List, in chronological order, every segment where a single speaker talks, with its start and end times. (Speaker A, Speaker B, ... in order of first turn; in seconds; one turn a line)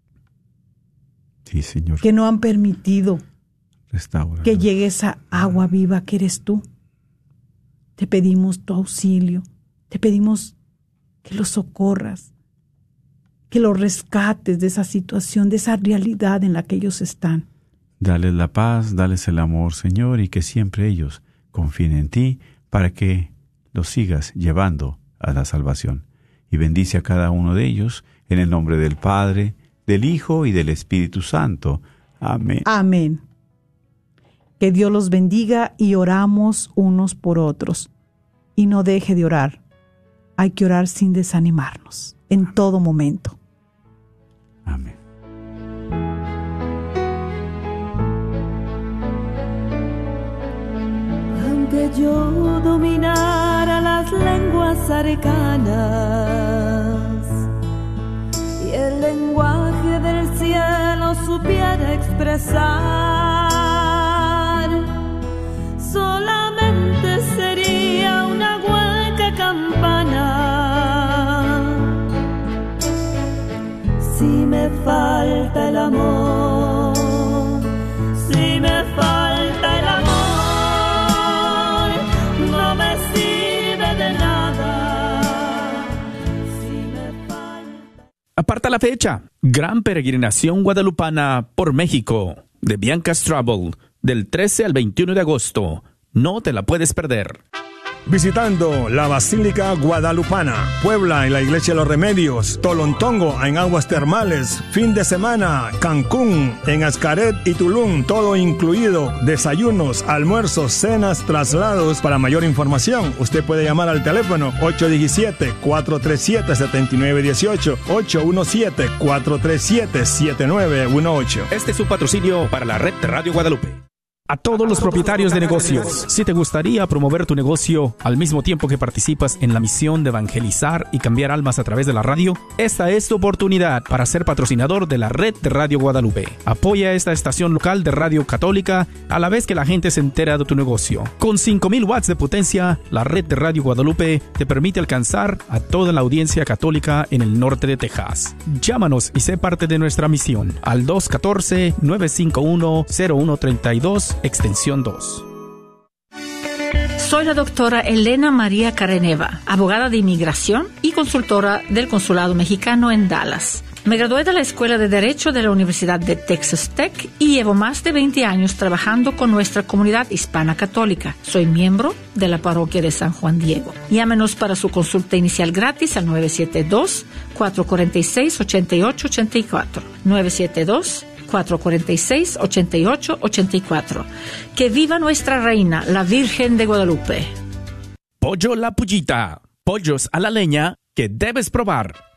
Speaker A: 1.4-2.0
Speaker B: 2.0-3.2
Speaker A: 3.9-4.7
Speaker B: 4.4-6.6
Speaker B: 8.0-10.5
Speaker B: 11.2-12.3
Speaker B: 13.5-17.5
Speaker A: 18.0-32.7
Speaker B: 32.6-33.2
Speaker B: 34.6-37.9
Speaker B: 38.6-39.6
Speaker B: 40.4-43.4
Speaker A: 44.7-45.0
Speaker C: 51.3-57.3
Speaker C: 58.6-65.0
Speaker C: 65.8-72.0
Speaker C: 74.0-87.8
Speaker D: 88.4-97.4
Speaker E: 98.1-121.5
Speaker D: 121.5-155.2
Speaker F: 157.0-187.3
Speaker D: 188.2-192.0